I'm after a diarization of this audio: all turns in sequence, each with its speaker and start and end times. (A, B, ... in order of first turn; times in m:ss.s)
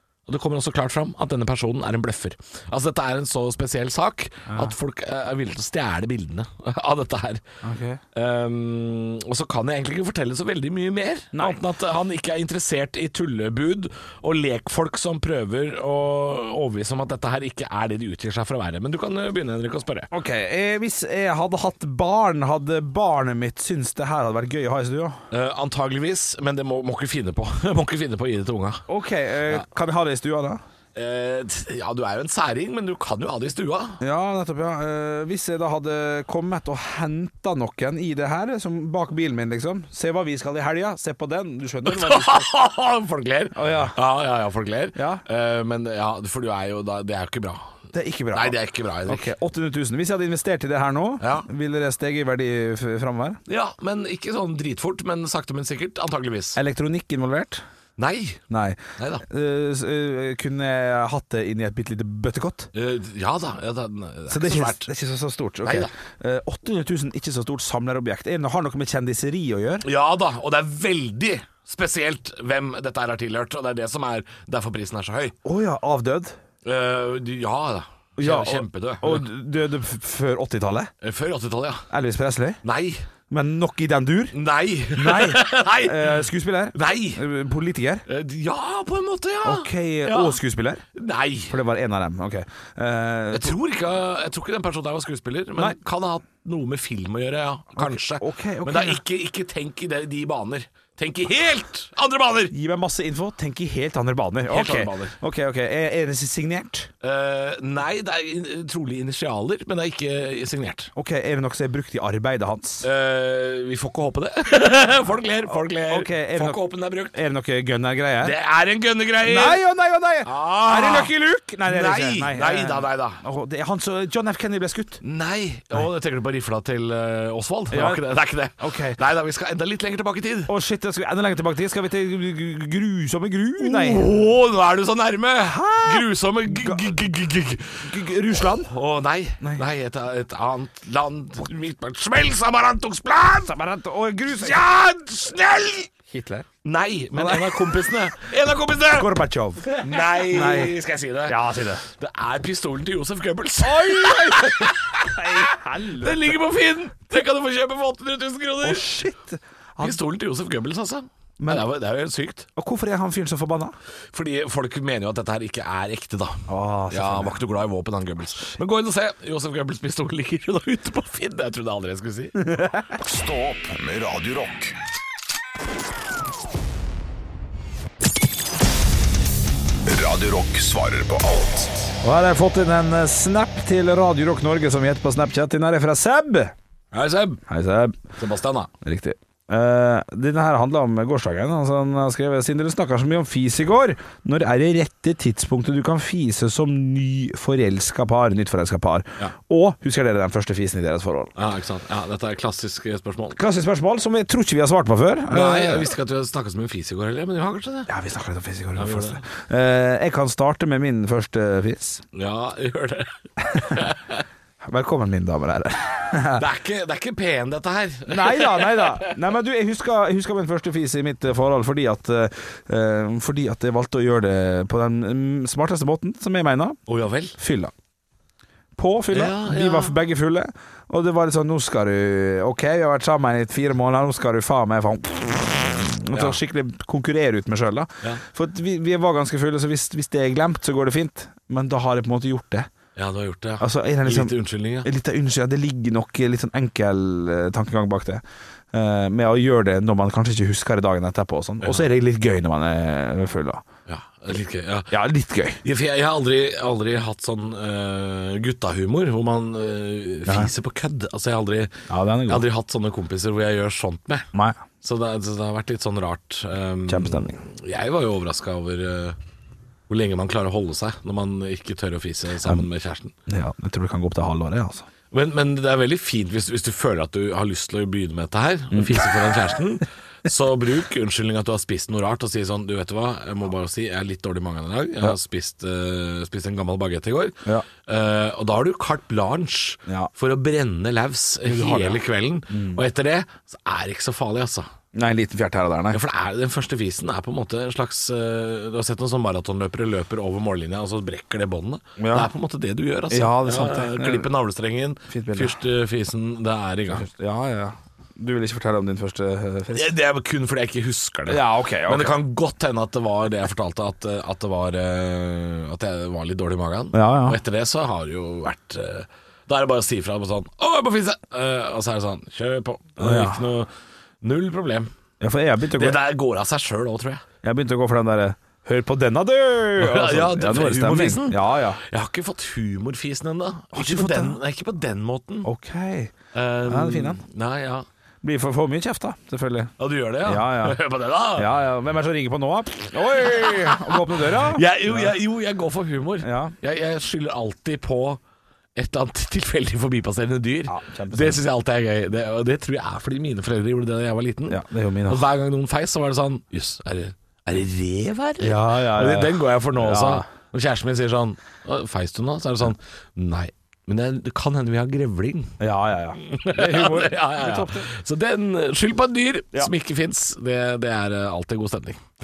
0:00.3-0:07.4 A
0:07.6-0:08.0 B
0:08.1-0:20.1 A
0:11.3-0:11.6 B
0:20.1-0:25.2 B
0:25.3-0:28.8 A
0:28.9-0:30.6 B
0:30.9-0:34.0 A
0:34.0-0:42.5 B
0:41.8-0:47.8 A
0:43.5-0:44.0 B
0:44.9-0:45.2 B
0:47.9-0:53.4 B
0:48.3-0:49.3 A
0:51.2-0:51.5 A
0:53.5-0:56.6 A
0:56.6-0:57.6 B
0:58.0-0:58.4 A
0:58.5-1:02.7 B
0:59.0-0:59.2 A
1:02.7-1:04.9 A
1:04.3-1:09.8 B
1:05.6-1:05.9 A
1:09.8-1:15.3 A
1:15.4-1:16.4 B
1:16.6-1:19.2 A
1:18.2-1:20.9 B
1:21.0-1:21.8 A
1:21.9-1:22.6 B
1:22.6-1:23.0 A
1:23.3-1:24.3 B
1:24.3-1:27.2 A
1:24.9-1:28.0 B
1:28.0-1:30.4 A
1:29.4-1:30.8 B
1:30.9-1:31.6 A
1:31.5-1:33.6 B
1:33.3-1:42.5 A
1:37.8-1:39.0 B
1:42.5-1:46.9 B
1:44.5-1:45.2 A
1:47.0-1:50.9 A
1:51.0-1:52.8 B
1:52.8-1:57.2 A
1:55.8-1:58.3 B
1:58.2-1:59.6 A
1:59.2-2:05.0 B
2:00.2-2:01.1 A
2:01.6-2:03.2 A
2:05.0-2:10.5 A
2:07.7-2:08.0 B
2:08.6-2:09.0 B
2:10.5-2:14.1 B
2:13.6-2:23.5 A
2:15.4-2:17.0 B
2:17.8-2:18.7 B
2:23.4-2:24.6 B
2:24.3-2:25.9 A
2:26.1-2:26.5 B
2:26.6-2:29.1 A
2:27.2-2:27.6 B
2:28.9-2:31.8 B
2:29.7-2:38.9 A
2:33.6-2:36.4 B
2:38.6-2:40.0 B
2:39.8-2:42.4 A
2:41.4-2:41.7 B
2:42.6-2:43.7 B
2:44.1-2:52.4 A
2:46.5-2:47.4 B
2:52.4-2:52.9 B
2:53.0-2:54.7 C
2:59.8-3:01.9 C
3:02.0-3:06.5 B
3:06.9-3:07.4 A
3:07.5-3:08.0 B
3:08.2-3:08.7 A
3:08.8-3:21.3 B
3:21.4-3:23.4 A
3:23.3-3:25.9 B
3:25.3-3:27.9 A
3:27.9-3:32.0 B
3:28.8-3:29.2 A
3:32.1-3:34.2 A
3:33.5-3:33.8 B
3:34.6-3:36.4 B
3:36.3-3:39.2 A
3:38.1-3:46.8 B
3:46.9-3:47.4 A
3:47.4-3:47.7 B
3:48.8-4:02.7 B
3:49.1-3:49.9 A
3:56.1-3:56.4 A
4:03.0-4:04.9 A
4:03.6-4:13.6 B
4:13.9-4:14.9 A
4:14.9-4:15.6 B
4:15.6-4:29.2 A
4:20.3-4:20.5 B
4:21.9-4:22.4 B
4:24.3-4:24.6 B
4:26.9-4:27.4 B
4:29.9-4:33.1 A
4:33.3-4:34.9 B
4:35.1-4:54.7 A
4:38.7-4:39.1 B
4:51.4-4:52.8 B
4:54.9-4:56.0 B
4:55.9-5:07.0 A
5:02.0-5:02.3 B
5:03.1-5:04.3 B
5:05.1-5:05.6 B
5:06.9-5:09.9 B
5:09.7-5:23.7 A
5:11.3-5:12.2 B
5:16.9-5:17.4 B
5:23.0-5:23.4 B
5:24.2-5:24.9 A
5:25.2-5:26.0 B
5:25.7-5:27.2 A
5:27.4-5:31.8 B
5:29.8-5:35.5 A
5:33.7-5:34.4 B
5:35.4-5:37.2 B
5:36.3-5:37.8 A
5:38.2-5:40.8 B
5:39.8-5:41.5 A
5:41.3-5:45.1 B
5:43.0-5:48.2 A
5:46.2-5:46.5 B
5:48.7-6:05.6 A
5:50.7-5:51.4 B
5:54.5-5:55.2 B
5:58.4-6:00.2 B
6:05.6-6:07.9 B
6:06.2-6:12.0 A